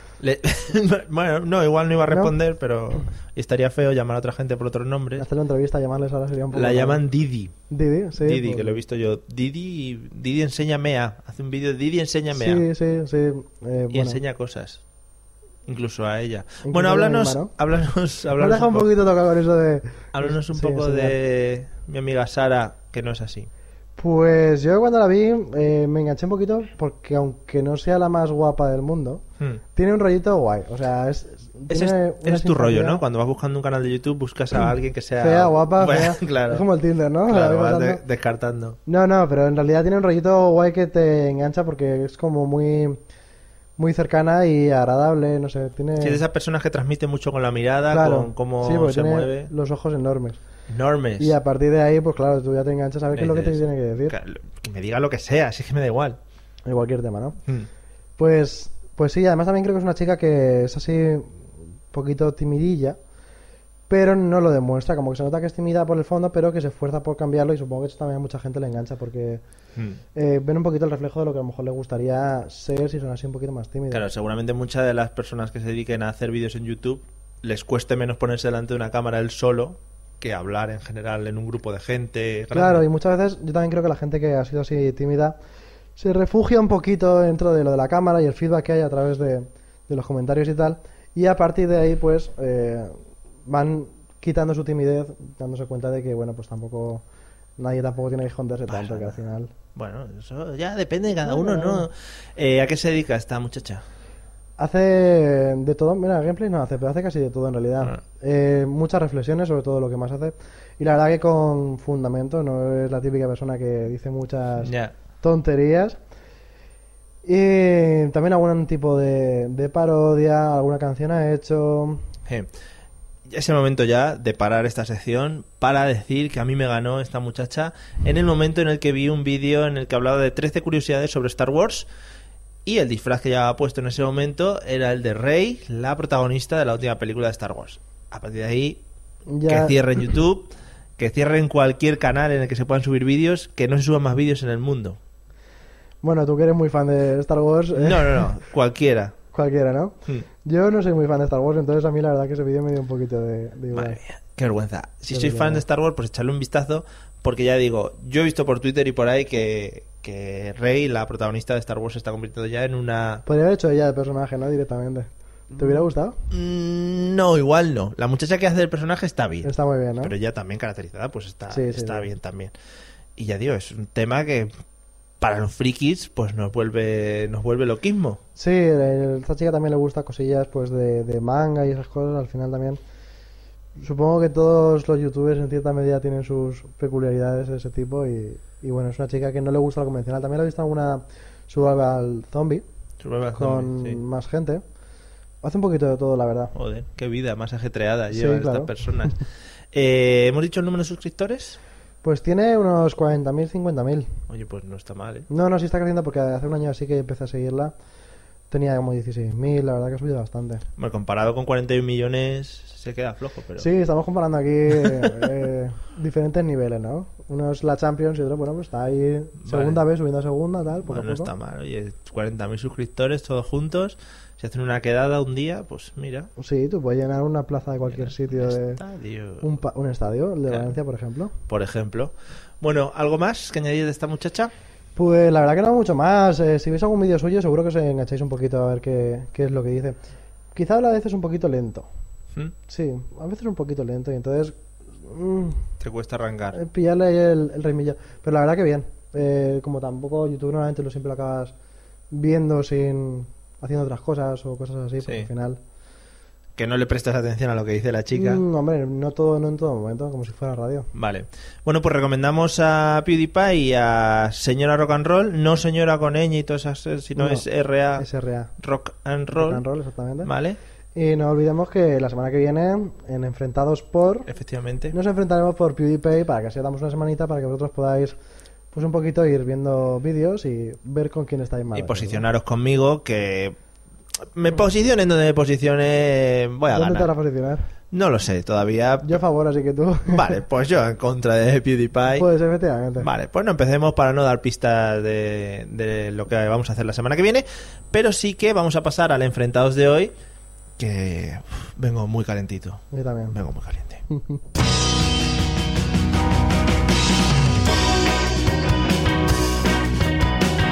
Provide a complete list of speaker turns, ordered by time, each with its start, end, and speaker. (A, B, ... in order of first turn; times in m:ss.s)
0:00.2-0:05.2 A
0:05.2-0:07.0 B
0:06.5-0:07.5 A
0:07.7-0:08.8 B
0:08.2-0:12.6 A
0:12.3-0:14.2 B
0:13.9-0:14.8 A
0:15.6-0:18.9 A
0:16.6-0:17.5 B
0:18.4-0:21.2 B
0:20.1-0:23.5 A
0:24.0-0:33.0 B
0:31.7-0:36.6 A
0:35.2-0:38.0 B
0:37.3-0:38.8 A
0:38.8-0:43.0 B
0:43.8-0:46.2 B
0:46.0-0:49.5 A
0:47.9-0:50.4 B
0:50.7-0:51.3 A
0:51.2-0:54.2 B
0:53.1-0:56.2 A
0:56.6-0:57.4 B
0:58.2-1:03.0 B
1:03.9-1:09.4 B
1:10.1-1:14.0 B
1:13.9-1:22.8 A
1:22.5-1:25.4 B
1:26.0-1:37.0 B
1:37.6-1:39.5 B
1:38.7-1:39.2 A
1:39.7-1:43.8 A
1:41.2-1:41.9 B
1:44.6-1:56.0 B
1:54.6-1:54.9 A
1:57.2-2:02.0 B
2:03.3-2:11.9 A
2:12.6-2:18.8 A
2:19.3-2:19.8 B
2:19.5-2:25.0 A
2:26.0-2:28.3 B
2:27.7-2:29.1 A
2:29.3-2:34.0 B
2:33.7-2:43.2 A
2:35.1-2:35.6 B
2:43.2-2:46.2 B
2:46.3-2:52.5 A
2:49.4-2:50.1 B
2:51.5-2:52.1 B
2:53.2-2:54.5 A
2:55.2-2:58.2 A
2:58.4-3:02.8 B
3:03.8-3:12.6 B
3:13.0-3:14.0 A
3:13.3-3:14.6 B
3:15.4-3:16.5 B
3:16.5-3:21.6 A
3:18.1-3:18.7 B
3:22.0-3:24.1 B
3:24.3-3:25.2 A
3:25.3-3:27.7 B
3:28.5-3:30.6 B
3:30.8-3:33.7 A
3:33.6-3:41.3 B
3:39.4-3:39.8 A
3:40.8-3:46.3 A
3:46.4-3:48.8 B
3:47.9-3:49.5 A
3:49.4-3:51.3 B
3:51.5-3:54.5 A
3:55.0-4:00.0 B
4:00.5-4:01.9 B
4:02.7-4:05.6 B
4:05.8-4:06.6 A
4:06.5-4:11.5 B
4:12.1-4:15.6 B
4:15.0-4:15.3 A
4:16.6-4:18.4 A
4:18.1-4:20.9 B
4:20.9-4:28.0 A
4:27.2-4:27.4 B
4:28.0-4:28.5 B
4:28.6-4:29.6 A
4:29.3-4:30.3 B
4:30.2-4:30.6 A
4:30.9-4:34.3 B
4:34.3-4:34.9 A
4:34.9-4:38.2 B
4:38.7-4:42.2 B
4:41.7-4:43.6 A
4:44.3-4:47.1 A
4:46.7-4:47.7 B
4:47.9-4:49.2 A
4:49.0-4:50.4 B
4:50.1-4:52.3 A
4:52.1-4:53.1 B
4:53.0-5:00.1 A
5:00.8-5:04.0 A
5:02.9-5:03.4 B
5:04.1-5:04.4 B